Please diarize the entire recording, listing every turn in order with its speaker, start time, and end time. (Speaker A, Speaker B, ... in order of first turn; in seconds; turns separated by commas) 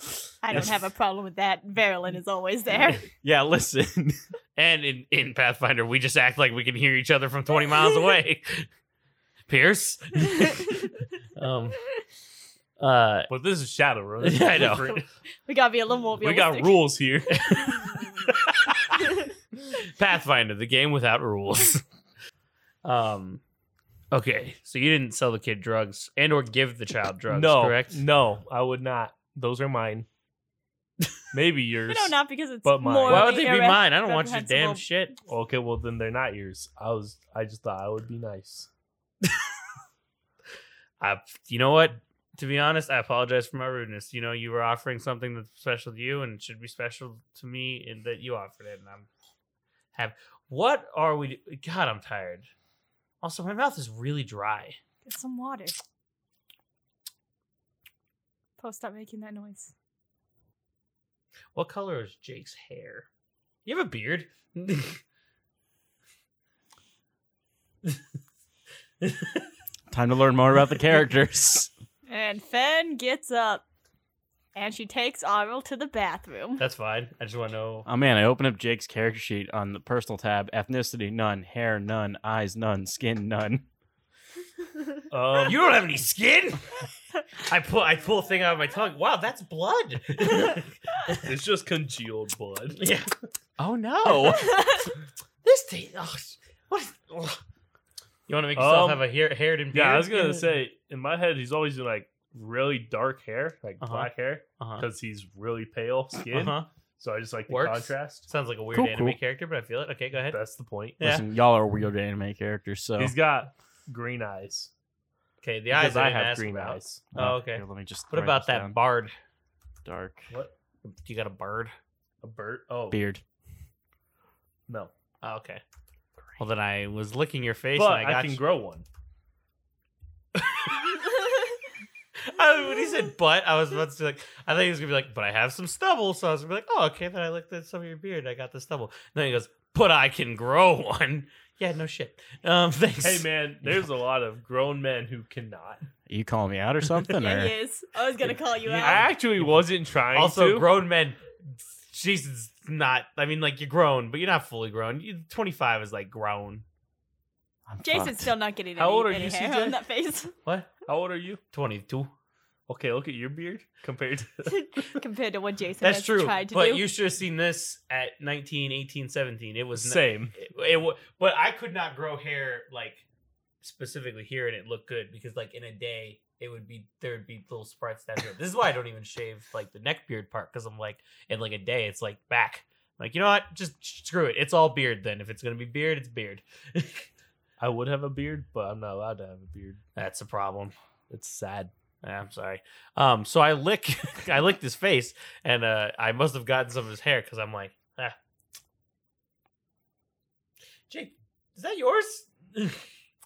Speaker A: 0.4-3.0, Speaker B: 2.9-4.2, Speaker C: 4.6-8.7, Speaker C: 9.5-11.8, Speaker C: 12.8-13.3, Speaker D: 13.3-15.0, Speaker C: 14.2-15.0, Speaker A: 15.4-16.9, Speaker D: 16.2-17.5, Speaker C: 17.3-18.0, Speaker C: 19.7-21.8, Speaker C: 22.8-23.4, Speaker C: 24.1-28.0, Speaker D: 27.3-30.1, Speaker D: 31.3-33.3, Speaker A: 31.9-34.8, Speaker C: 33.0-35.1, Speaker D: 35.3-38.7, Speaker C: 41.0-49.1, Speaker C: 49.9-52.5, Speaker C: 53.2-54.8, Speaker A: 55.0-55.7, Speaker A: 58.6-59.7, Speaker C: 61.5-63.1, Speaker C: 63.6-65.0, Speaker C: 69.0-69.4, Speaker B: 69.9-71.7, Speaker A: 72.1-73.6, Speaker A: 74.5-76.7, Speaker C: 76.6-77.8, Speaker B: 77.8-83.6, Speaker D: 85.1-85.6, Speaker C: 85.4-91.2, Speaker D: 91.2-92.8, Speaker C: 92.8-93.1, Speaker B: 93.6-94.7, Speaker C: 94.0-94.9, Speaker A: 94.2-94.9, Speaker C: 95.4-97.4, Speaker C: 98.3-100.5, Speaker D: 98.5-99.1, Speaker D: 99.7-108.3, Speaker C: 103.8-104.8, Speaker C: 106.3-106.7, Speaker C: 107.5-110.4, Speaker B: 108.7-109.2, Speaker D: 110.3-111.0, Speaker C: 111.0-111.2, Speaker B: 111.0-113.2, Speaker D: 113.0-114.7, Speaker C: 115.4-119.1, Speaker D: 115.7-117.0, Speaker B: 117.1-118.8, Speaker B: 119.8-120.3, Speaker C: 120.8-121.7, Speaker D: 122.2-123.0, Speaker B: 122.9-123.2, Speaker C: 125.2-125.6, Speaker C: 126.4-128.4, Speaker D: 127.8-128.8, Speaker C: 130.4-130.9, Speaker C: 132.2-143.3, Speaker D: 143.0-145.8, Speaker B: 146.1-147.5, Speaker A: 147.1-149.1, Speaker C: 148.6-149.5, Speaker D: 148.7-150.7, Speaker C: 150.1-151.2, Speaker C: 151.9-156.6, Speaker B: 157.7-158.3, Speaker A: 157.8-160.3, Speaker D: 158.8-159.8, Speaker D: 160.9-161.4, Speaker C: 161.5-162.1, Speaker D: 162.7-164.9, Speaker A: 164.5-166.9, Speaker C: 165.8-173.0, Speaker D: 169.8-170.3, Speaker C: 173.6-187.1, Speaker D: 187.6-189.8, Speaker C: 189.9-190.7, Speaker D: 191.1-191.7, Speaker C: 192.0-198.2, Speaker C: 200.9-202.8